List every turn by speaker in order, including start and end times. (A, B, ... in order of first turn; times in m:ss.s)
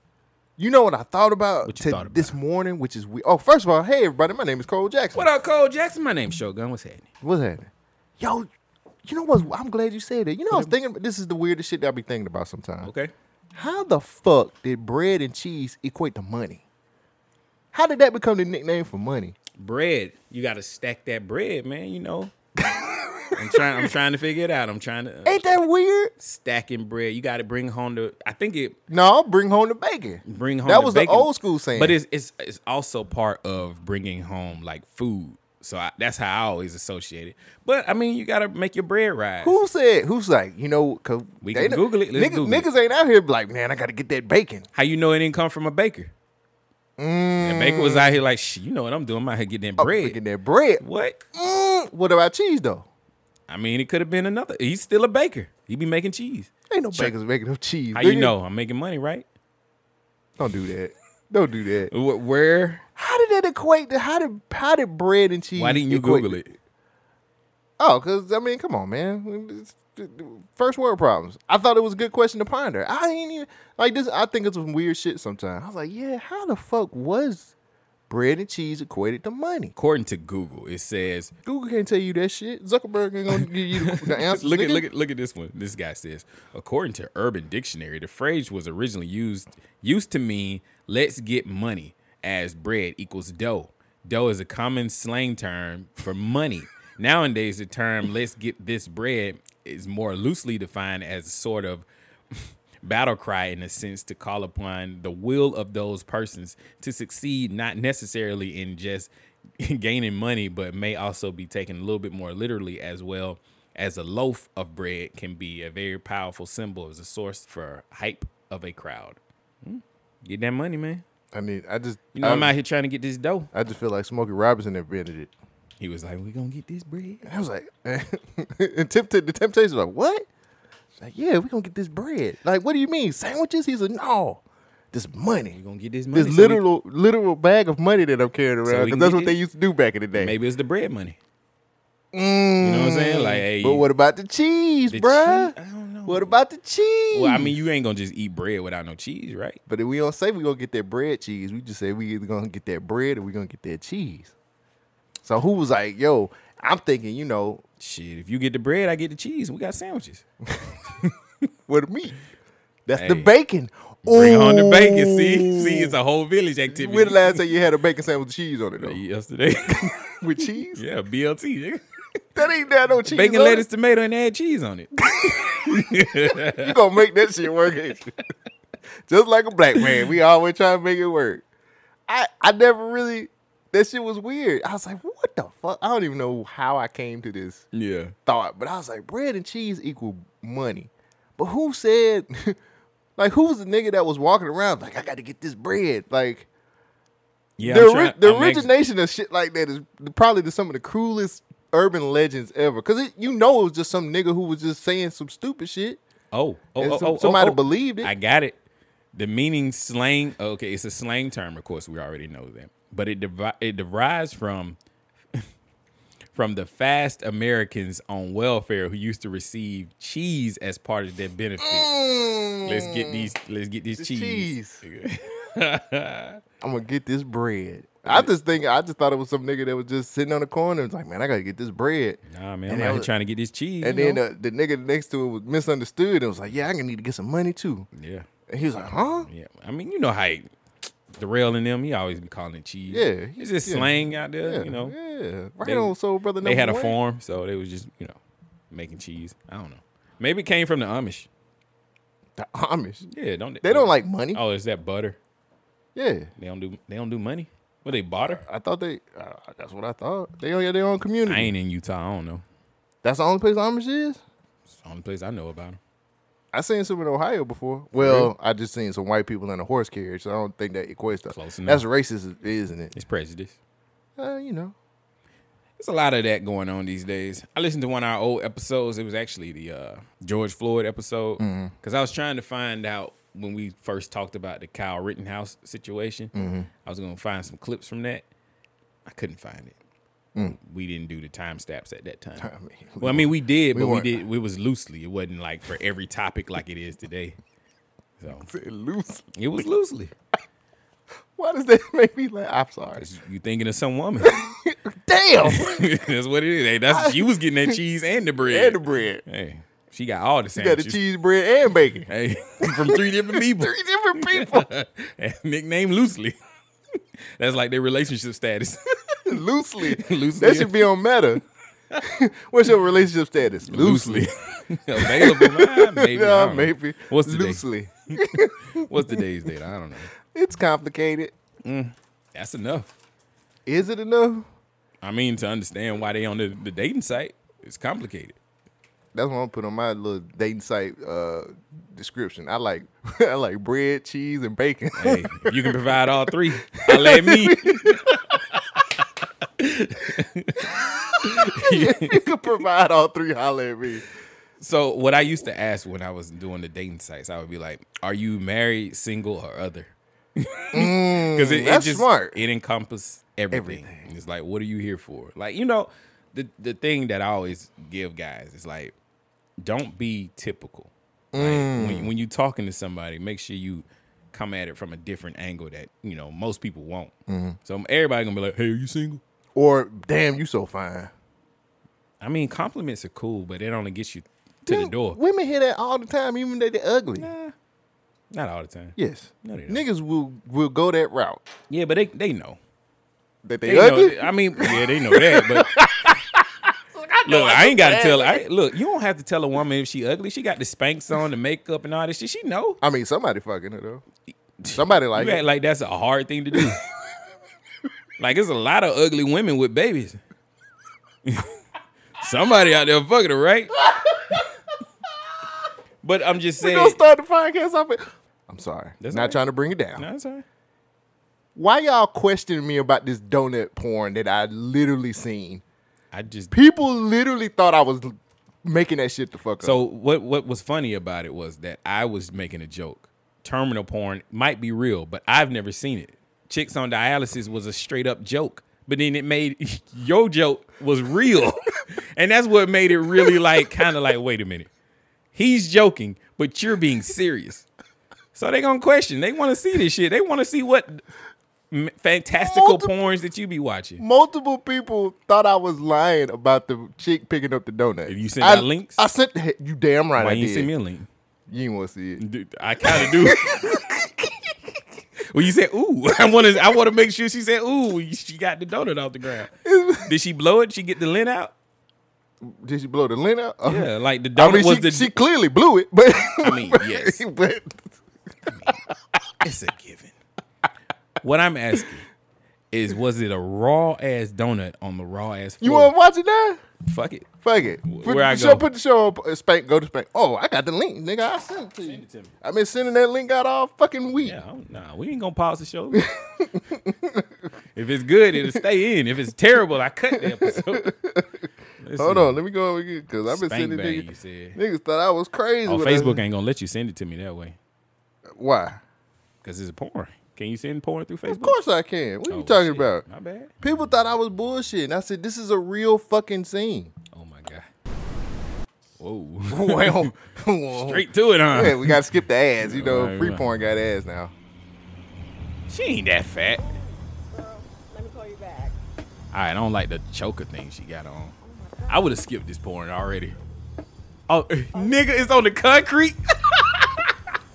0:00.6-0:05.3 A
0:01.6-0:02.4 B
0:05.1-0:07.1 B
0:07.2-0:08.5 A
0:09.0-0:12.9 A
0:12.8-0:13.1 B
0:13.5-0:16.6 A
0:17.7-0:19.4 A
0:19.6-0:22.3 B
0:22.6-0:23.9 A
0:23.3-0:25.4 B
0:25.2-0:26.1 A
0:26.2-0:28.8 B
0:28.9-0:32.0 A
0:30.2-0:39.6 B
0:39.4-0:44.7 A
0:41.4-0:42.7 B
0:44.7-0:46.1 B
0:47.0-0:48.2 A
0:47.4-0:50.2 B
0:49.8-0:50.8 A
0:50.8-0:51.2 B
0:51.3-0:52.8 A
0:53.5-0:57.1 B
0:56.7-0:58.3 A
0:57.9-0:59.2 B
1:00.4-1:01.9 A
1:01.9-1:02.8 B
1:03.0-1:06.4 A
1:05.6-1:06.5 B
1:07.8-1:17.5 A
1:18.1-1:19.7 A
1:19.8-1:21.3 B
1:21.4-1:24.8 A
1:23.3-1:41.8 B
1:42.8-2:01.0 B
2:01.3-2:02.5 A
2:02.1-2:03.5 B
2:03.5-2:05.3 A
2:05.8-2:07.2 B
2:07.2-2:10.2 A
2:10.9-2:15.6 A
2:15.5-2:16.6 B
2:16.1-2:20.3 A
2:18.6-2:19.4 B
2:20.1-2:21.2 B
2:22.1-2:25.5 A
2:22.6-2:23.8 B
2:24.9-2:26.3 B
2:26.0-2:27.6 A
2:27.1-2:29.6 B
2:29.7-2:34.3 A
2:35.2-2:37.6 A
2:37.8-2:40.2 B
2:40.5-2:40.7 A
2:41.7-2:42.2 A
2:42.9-2:46.0 A
2:43.0-2:43.3 B
2:44.0-2:47.4 B
2:46.7-2:49.0 A
2:48.8-2:50.1 B
2:50.2-2:50.8 A
2:50.7-2:51.8 B
2:52.3-2:53.6 A
2:53.1-2:56.7 B
2:55.1-2:55.6 A
2:56.3-2:58.1 A
2:59.1-3:01.4 A
3:02.1-3:07.6 A
3:07.7-3:08.1 B
3:08.2-3:12.6 A
3:13.2-3:16.5 A
3:17.6-3:18.7 B
3:17.6-3:26.0 A
3:26.3-3:28.6 B
3:26.8-3:28.1 A
3:29.1-3:34.8 B
3:36.3-3:41.9 B
3:41.6-3:43.3 A
3:42.6-3:46.4 B
3:44.0-3:44.8 A
3:46.6-3:53.1 A
3:48.0-3:48.3 B
3:52.3-3:54.2 B
3:53.8-3:57.9 A
3:57.9-3:58.3 B
3:58.5-3:59.3 A
3:59.2-4:00.5 B
4:01.1-4:04.9 B
4:02.9-4:07.0 A
4:05.6-4:08.2 B
4:08.7-4:11.3 B
4:12.4-4:13.1 A
4:13.1-4:15.2 B
4:13.6-4:14.4 A
4:15.9-4:16.3 A
4:16.4-4:18.4 B
4:18.2-4:21.5 A
4:21.3-4:22.4 B
4:23.0-4:24.2 A
4:24.8-4:25.8 B
4:26.5-4:32.9 A
4:28.0-4:28.3 B
4:31.3-4:31.8 B
4:32.9-4:33.6 B
4:34.2-4:34.7 A
4:35.8-4:46.3 B
4:41.4-4:41.7 A
4:46.3-4:46.7 A
4:46.8-4:48.2 B
4:49.0-4:49.8 B
4:50.5-4:52.5 B
4:52.4-4:54.2 A
4:53.0-4:57.4 B
4:58.2-4:58.5 B
4:58.3-4:59.3 A
4:59.3-5:00.1 B
5:01.4-5:03.1 A
5:03.0-5:04.3 B
5:04.2-5:05.8 A
5:05.4-5:11.0 B
5:06.9-5:07.7 A
5:08.4-5:09.2 A
5:10.5-5:12.1 A
5:12.1-5:16.4 B
5:12.6-5:14.7 A
5:17.4-5:18.8 B
5:19.3-5:21.4 A
5:19.9-5:20.9 B
5:22.0-5:24.3 A
5:23.6-5:28.2 B
5:24.9-5:29.2 A
5:28.8-5:30.1 B
5:30.2-5:31.3 A
5:31.6-5:32.9 B
5:33.6-5:34.5 A
5:35.0-5:38.4 B
5:39.1-5:45.9 A
5:45.0-5:48.0 B
5:46.6-5:48.4 A
5:49.6-5:50.7 B
5:50.7-5:54.0 A
5:51.2-5:52.2 B
5:54.6-6:08.9 B
6:00.7-6:02.4 A
6:03.5-6:04.0 A
6:09.6-6:17.1 B
6:11.3-6:12.1 A
6:17.3-6:17.6 A
6:17.6-6:19.2 B
6:19.5-6:21.1 A
6:22.2-6:25.2 B
6:24.7-6:27.3 A
6:27.2-6:27.5 B
6:28.3-6:29.8 B
6:29.0-6:31.4 A
6:31.7-6:32.6 B
6:33.4-6:38.4 A
6:33.6-6:35.7 B
6:37.3-6:42.8 B
6:42.8-6:44.0 A
6:44.6-6:46.8 B
6:44.7-6:45.4 A
6:48.2-6:50.2 B
6:52.2-6:53.8 B
6:56.0-6:57.0 B
6:56.6-7:00.0 A
6:59.0-6:59.4 B
7:00.0-7:00.4 B
7:01.5-7:05.6 A
7:06.1-7:06.5 B
7:06.5-7:09.8 A
7:09.6-7:24.7 B
7:23.2-7:23.8 A
7:25.3-7:27.6 B
7:28.3-7:31.0 B
7:31.7-7:34.0 B
7:32.4-7:33.0 A
7:34.0-7:40.7 A
7:38.0-7:39.0 B
7:40.2-7:41.1 B
7:41.5-7:42.2 A
7:42.2-7:43.8 B
7:42.8-7:44.5 A
7:45.3-7:49.5 B
7:49.6-7:50.1 A
7:50.0-7:51.5 B
7:52.4-7:58.0 A
7:53.6-7:55.1 B
7:56.4-7:57.2 B
7:58.5-7:58.7 B
7:59.4-8:00.1 B
8:01.2-8:02.0 B
8:02.7-8:05.9 B
8:05.6-8:06.6 A
8:06.8-8:07.3 B
8:07.4-8:14.4 A
8:07.9-8:08.6 B
8:11.8-8:12.3 B
8:14.2-8:16.0 B
8:15.9-8:17.3 A
8:17.8-8:20.9 B
8:20.1-8:21.3 A
8:21.8-8:22.4 B
8:22.0-8:26.2 A
8:23.3-8:24.6 B
8:25.6-8:27.6 B
8:28.3-8:28.8 A
8:29.4-8:31.6 B
8:31.2-8:33.0 A
8:32.3-8:33.5 B
8:33.6-8:36.9 A
8:37.1-8:37.7 B
8:39.0-8:40.1 B
8:39.5-8:44.3 A
8:40.7-8:42.0 B
8:42.6-8:43.5 B
8:45.7-8:46.7 B
8:46.6-8:48.8 C
8:49.3-8:51.3 B
8:51.4-8:52.2 C
8:51.9-8:53.4 B
8:54.3-8:57.1 B